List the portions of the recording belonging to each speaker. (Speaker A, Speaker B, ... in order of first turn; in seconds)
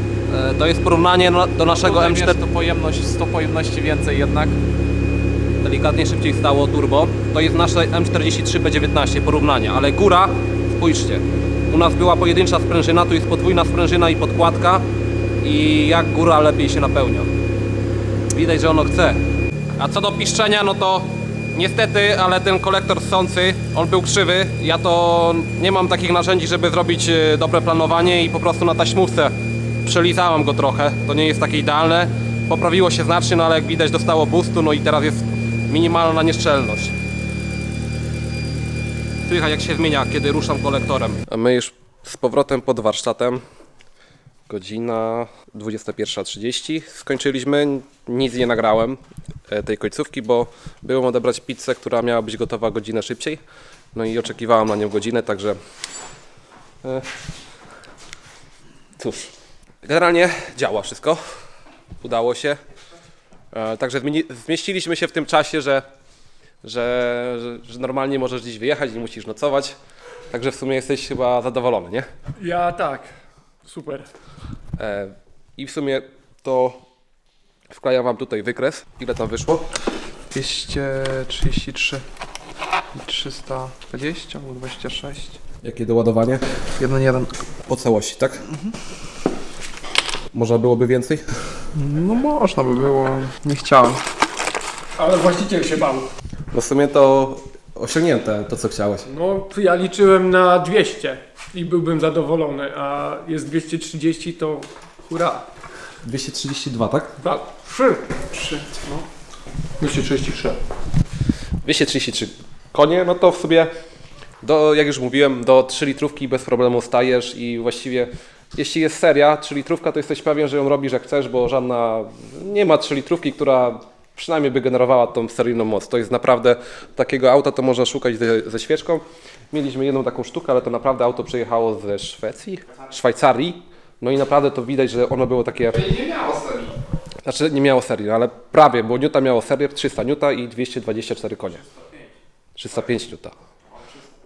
Speaker A: 0.3-2.4, 5.6-14.9, 15.4-17.3, 18.3-19.2, 19.8-29.3, 29.9-37.0, 39.3-43.4, 44.5-53.4, 53.9-55.6, 59.0-59.3, 59.8-61.2, 62.0-62.6, 63.5-65.9, 66.6-69.8, 70.3-72.1, 74.8-76.8, 77.7-79.7, 85.6-86.4, 87.7-88.5, 90.3-91.3, 96.5-99.1, 106.0-107.2, 111.6-113.7, 114.4-135.9, 137.2-141.6, 142.6-143.3
Speaker B: 1.7-4.6, 80.3-82.0, 82.9-85.4, 86.8-87.3, 91.7-94.0, 108.4-109.0, 136.1-136.6
Speaker C: 72.4-73.1, 73.7-74.1, 95.0-96.1, 99.1-105.5, 107.2-108.3, 109.8-110.6